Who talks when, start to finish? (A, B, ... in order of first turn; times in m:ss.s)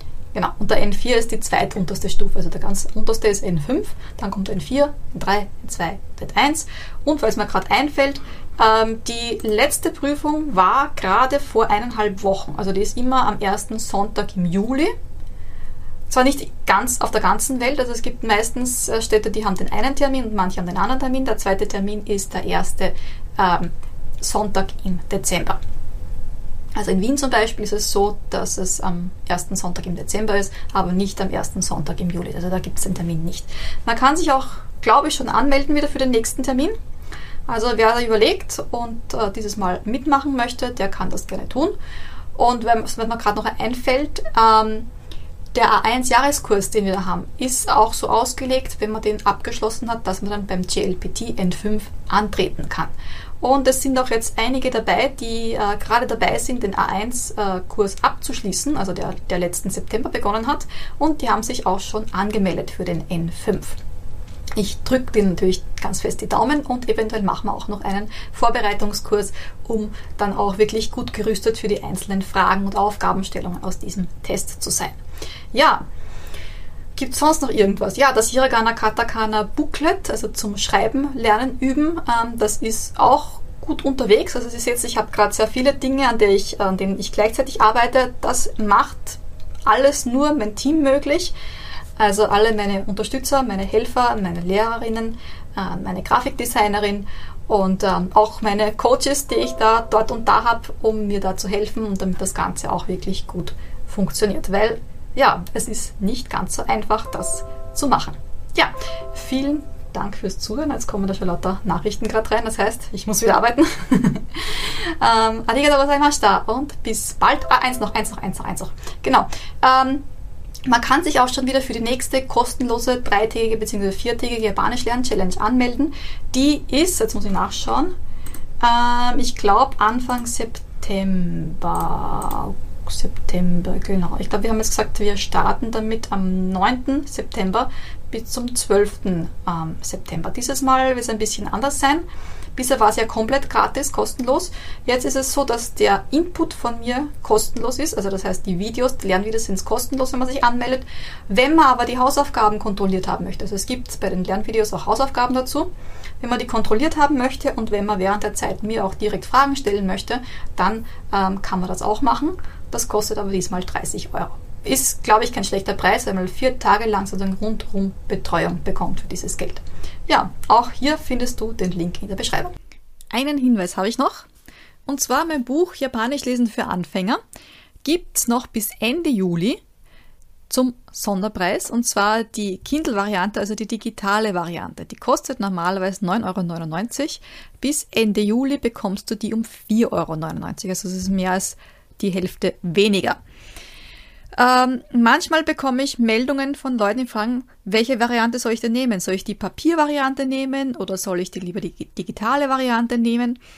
0:00.3-0:14.9 A
0:16.1-0:25.6 A
0:26.8-0:36.7 A
0:37.5-0:41.8 A
0:42.4-0:44.9 A
0:45.5-1:03.8 A
1:04.6-1:15.0 A
1:15.5-1:15.8 A
1:17.0-1:31.3 A
1:32.0-2:00.0 A
2:00.7-2:07.9 A
2:08.6-2:22.0 A
2:22.6-2:35.7 A
2:36.2-2:52.6 A
2:53.1-2:54.3 A
2:54.9-2:57.2 A
2:57.8-2:59.6 A
3:00.5-3:13.2 A
3:14.4-3:23.4 A